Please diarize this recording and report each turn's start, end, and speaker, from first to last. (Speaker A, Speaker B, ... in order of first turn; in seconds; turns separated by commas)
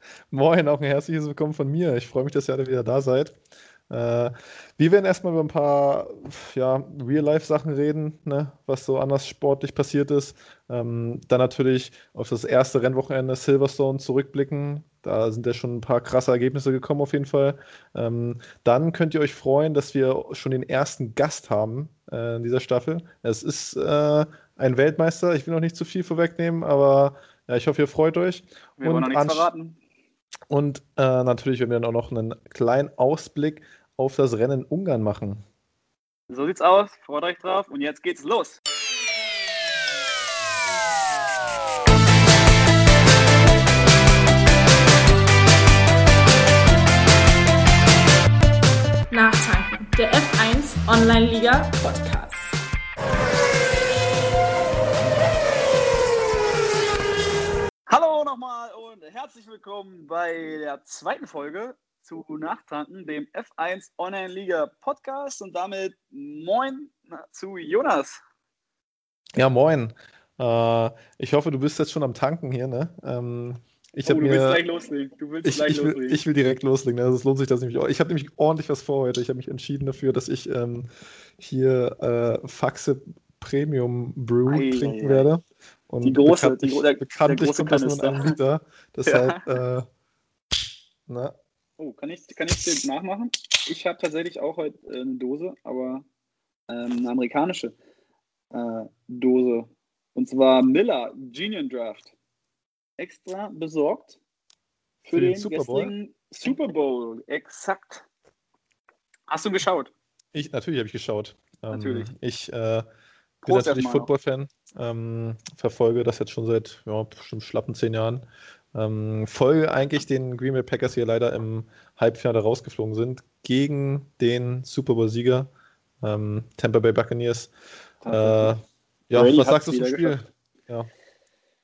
Speaker A: 0.3-3.4, Speaker A: 3.9-29.5, Speaker B: 28.8-29.8, Speaker A: 30.5-35.4, Speaker B: 36.3-38.6, Speaker C: 49.1-52.6, Speaker B: 57.9-68.2, Speaker A: 69.3-74.6, Speaker B: 74.0-76.2, Speaker A: 75.5-89.9, Speaker B: 84.5-85.3, Speaker B: 86.0-88.4, Speaker B: 89.1-89.5, Speaker A: 91.1-91.3, Speaker B: 91.8-96.0, Speaker B: 96.7-97.8, Speaker B: 98.5-102.1, Speaker B: 103.0-104.2, Speaker B: 105.0-108.1, Speaker A: 105.1-105.9, Speaker B: 109.3-109.9, Speaker A: 110.3-112.8, Speaker B: 111.7-112.1, Speaker A: 113.4-125.5, Speaker B: 113.5-114.1, Speaker A: 126.0-127.5, Speaker B: 128.0-128.5, Speaker A: 128.1-130.9, Speaker B: 129.1-130.2